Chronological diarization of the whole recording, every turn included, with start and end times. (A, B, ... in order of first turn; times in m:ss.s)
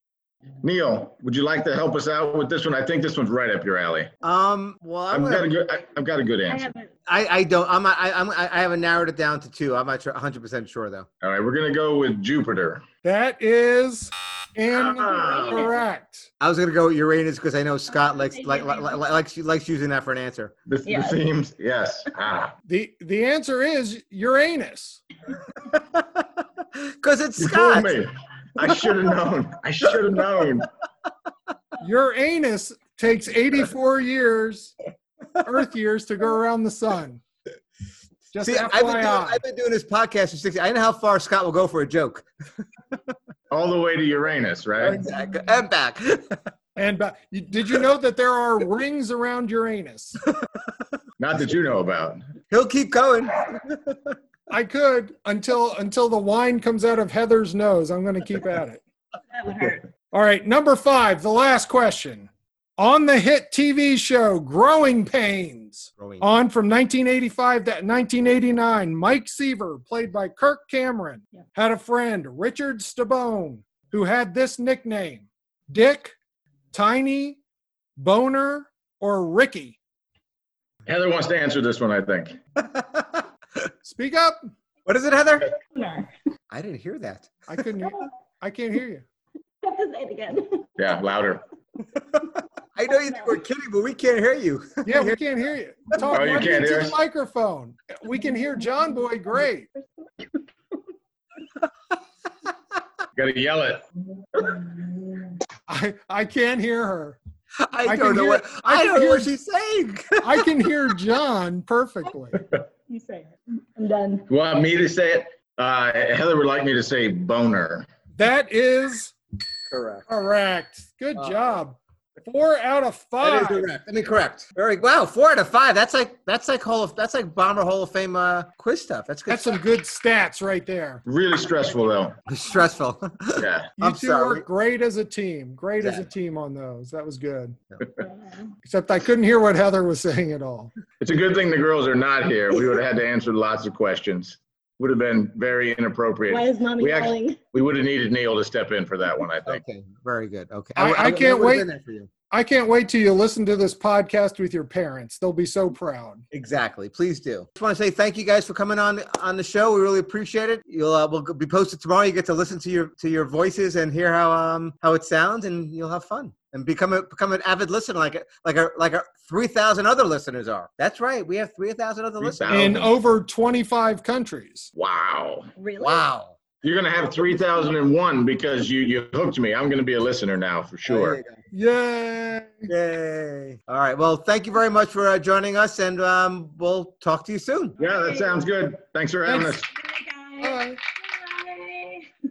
0:00.6-0:04.1 A
0:04.2-0:05.5 B
0:05.1-0:06.6 A
0:06.5-0:06.9 C
0:07.1-0:11.1 B
0:11.2-0:12.8 A
0:13.0-0:16.3 D
0:14.8-0:15.7 A
0:15.1-0:15.7 C
0:16.4-0:20.5 B
0:18.0-0:19.0 C
0:20.7-0:22.5 A
0:20.8-0:21.2 C
0:22.7-0:25.0 D
0:25.6-0:28.0 B
0:27.4-0:30.7 A
0:28.6-0:28.9 B
0:31.8-0:34.7 D
0:35.4-0:37.2 D
0:38.3-0:39.4 D
0:38.4-0:42.2 B
0:43.5-0:45.0 A
0:44.8-0:46.4 B
0:46.8-0:50.2 D
0:51.2-0:52.2 A
0:52.5-0:54.1 B
0:54.5-0:58.8 D
0:59.3-0:59.8 C
1:00.1-1:16.2 D
1:06.0-1:06.2 B
1:16.7-1:17.4 D
1:18.0-1:19.8 D
1:20.8-1:22.4 A
1:22.6-1:23.2 B
1:23.8-1:24.5 D
1:24.8-1:25.5 B
1:25.7-1:26.1 C
1:26.5-1:27.3 B
1:27.5-1:29.0 D
1:29.6-1:30.7 C
1:30.8-1:31.4 A
1:32.8-1:35.2 B
1:32.9-1:33.3 C
1:34.8-1:39.7 D
1:36.1-1:36.9 A
1:40.1-1:40.4 C
1:43.2-1:43.8 A
1:44.4-1:45.3 C
1:45.7-1:47.2 D
1:47.6-1:50.7 B
1:47.8-1:49.3 D
1:50.2-1:52.4 D
1:52.9-1:54.2 C
1:54.3-1:57.8 A
1:58.2-1:59.1 D
1:59.7-2:00.0 B
2:00.1-2:03.7 D
2:01.2-2:01.6 B
2:03.2-2:09.6 B
2:09.3-2:11.0 D
2:11.0-2:12.1 A
2:12.3-2:14.4 B
2:13.4-2:13.7 A
2:13.8-2:17.6 D
2:15.8-2:16.0 B
2:18.0-2:18.5 C
2:18.6-2:20.7 D
2:21.0-2:29.6 A
2:26.3-2:27.4 C
2:29.4-2:32.1 B
2:30.8-2:31.7 D
2:32.3-2:36.2 D
2:36.3-2:52.8 B
2:52.2-2:52.9 A
2:52.5-2:54.7 D
2:54.8-2:55.5 A
2:55.6-2:56.0 C
2:55.8-2:56.4 B
2:56.6-3:01.2 A
3:00.8-3:01.4 B
3:01.5-3:02.7 D
3:02.7-3:07.8 B
3:07.8-3:08.4 C
3:07.8-3:09.7 A
3:09.2-3:09.6 D
3:09.7-3:12.1 C
3:10.4-3:10.8 D